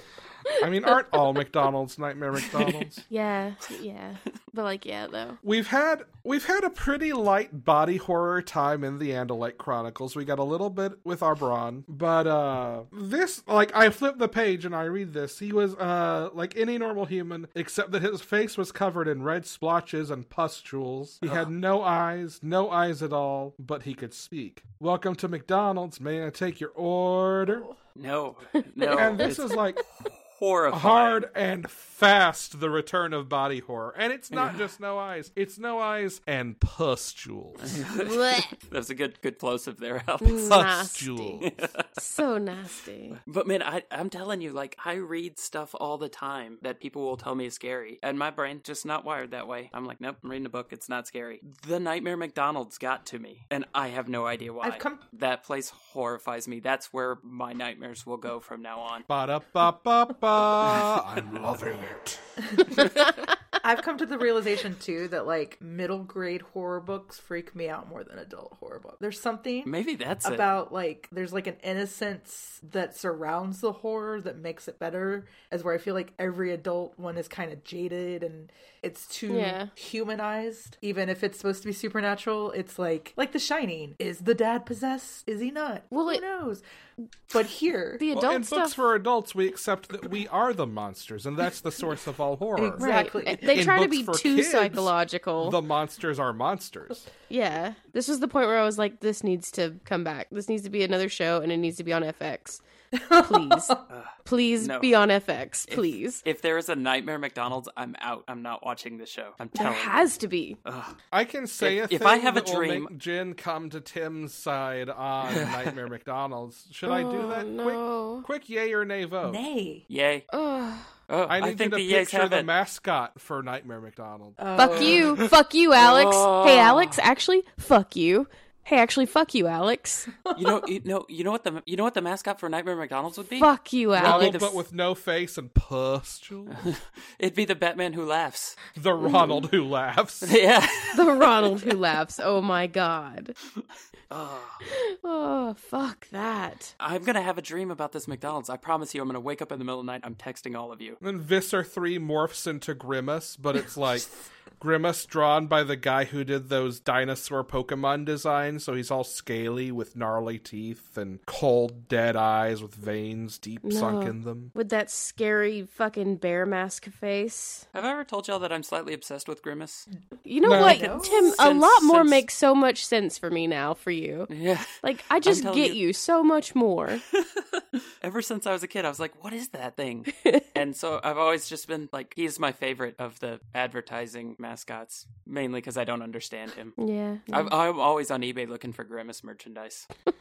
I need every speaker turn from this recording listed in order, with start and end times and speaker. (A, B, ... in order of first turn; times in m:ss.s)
0:00.5-0:03.0 A
0:02.6-0:02.9 B
0:03.1-0:05.4 C
0:05.4-0:27.7 A
0:21.2-0:21.5 B
0:28.0-0:31.3 B
0:28.8-0:29.4 C
0:29.0-0:29.8 A
0:30.7-0:37.8 A
0:34.3-0:34.6 B
0:37.6-0:40.5 B
0:38.0-0:38.5 C
0:40.2-0:41.4 C
0:40.4-0:41.5 A
0:41.4-0:42.0 B
0:42.0-0:43.2 C
0:43.2-0:59.1 B
0:54.6-0:55.0 D
0:59.1-1:02.2 A
1:02.5-1:09.7 D
1:09.7-1:10.6 B
1:10.2-1:26.6 D
1:19.3-1:19.7 C
1:25.9-1:26.2 C
1:27.3-1:28.0 D
1:28.0-1:28.8 C
1:28.1-1:32.8 A
1:32.6-1:33.6 D
1:32.8-1:35.6 C
1:33.5-1:37.1 A
1:37.3-1:42.6 C
1:42.9-1:43.8 D
1:43.2-1:46.2 C
1:43.9-1:45.0 B
1:45.7-1:50.1 B
1:49.6-1:50.6 C
1:50.6-1:51.0 B
1:51.1-1:59.4 A
1:51.6-1:52.9 B
1:55.3-1:55.8 B
1:56.8-1:58.3 C
1:59.2-1:59.8 D
1:59.9-2:00.3 B
2:00.3-2:00.9 C
2:01.1-2:02.5 B
2:01.3-2:05.0 A
2:04.4-2:05.2 D
2:04.6-2:10.1 C
2:04.9-2:05.2 B
2:05.8-2:07.0 B
2:10.2-2:10.6 D
2:10.4-2:14.6 B
2:13.4-2:14.5 C
2:14.0-2:16.6 A
2:16.5-2:18.6 B
2:18.8-2:20.3 A
2:20.2-2:21.8 B
2:20.9-2:23.4 C
2:24.1-2:24.7 B
2:24.7-2:26.7 C
2:26.8-2:31.0 B
2:31.0-2:44.5 A
2:43.6-2:47.6 C
2:47.7-2:49.9 B
2:50.3-2:54.3 C
2:50.4-2:50.9 A
2:50.5-2:51.4 D
2:51.0-2:52.2 B
2:54.3-2:55.8 B
2:54.8-2:57.0 C
2:57.1-3:06.8 B
3:06.8-3:07.5 C
3:07.3-3:09.9 B